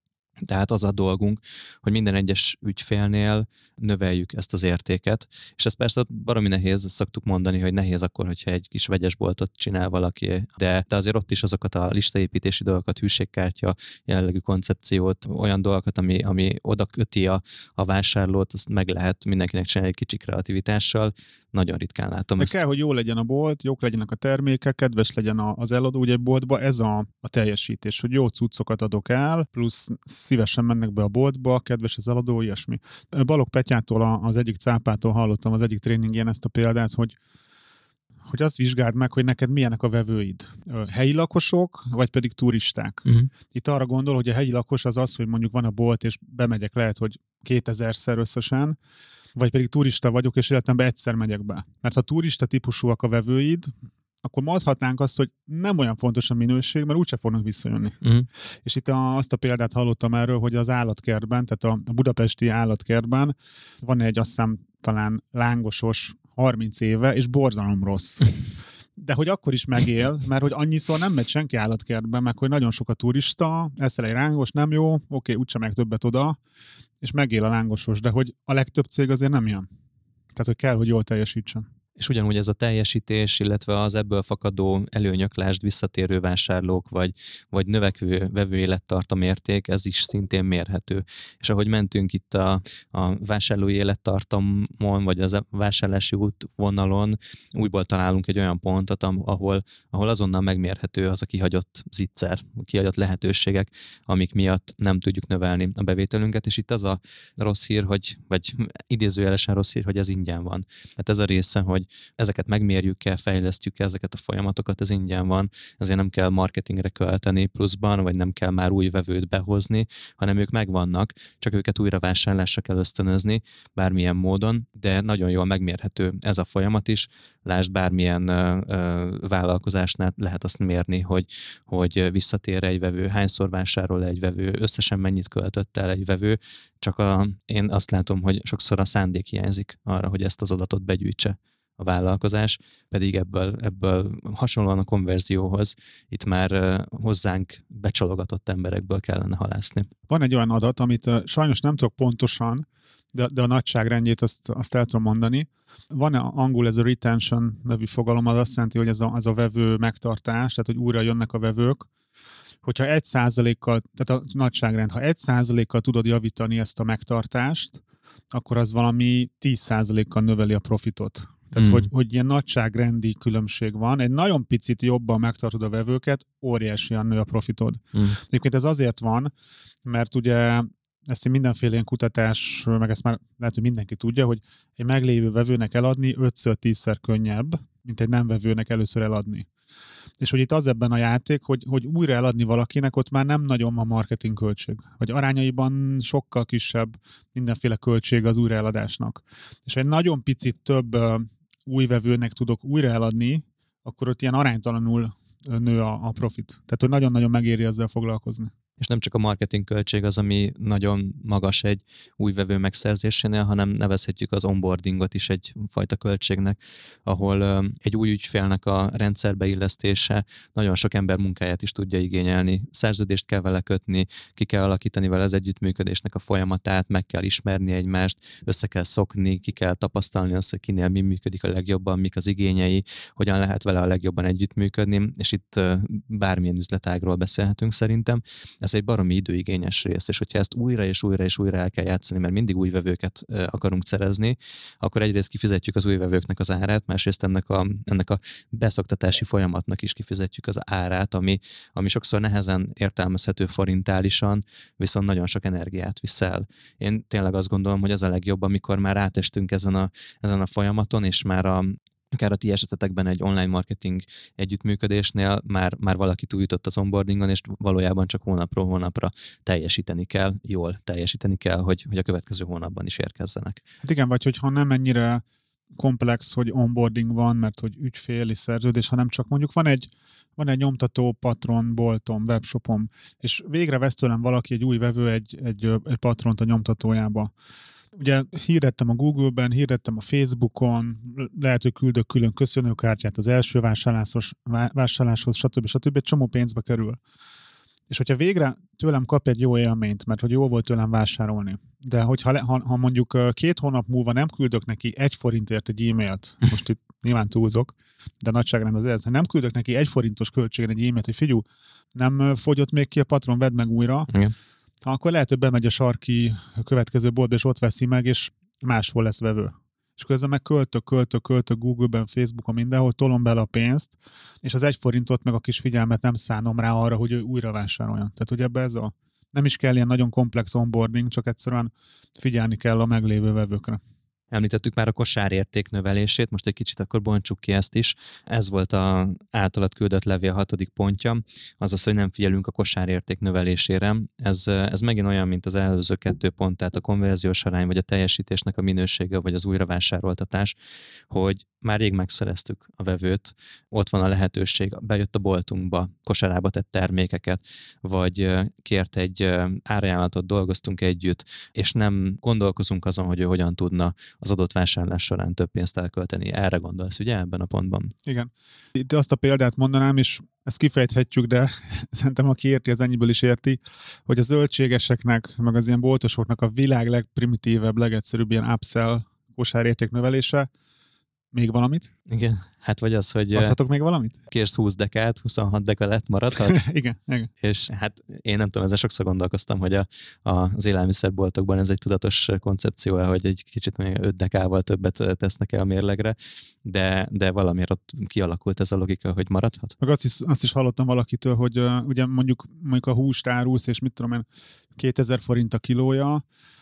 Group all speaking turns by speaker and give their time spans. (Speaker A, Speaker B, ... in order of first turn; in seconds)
Speaker A: 0.4-22.6, 58.0-58.3, 82.0-149.9, 171.6-171.9, 208.8-273.6, 334.3-350.6, 351.1-367.9, 382.1-383.6, 384.3-386.6, 387.4-399.7
Speaker B: 22.4-37.2, 38.3-48.8, 49.4-53.7, 54.2-58.0, 58.6-68.3, 69.0-76.4, 77.0-79.7, 80.3-81.7, 150.1-161.9, 162.6-179.3, 179.8-189.5, 190.2-208.5, 273.8-275.2, 275.8-287.3, 288.0-297.0, 297.9-311.4, 311.9-314.1, 314.8-333.8, 368.1-380.5, 381.3-381.9, 383.3-384.2, 386.5-387.3, 399.8-404.3, 404.8-406.2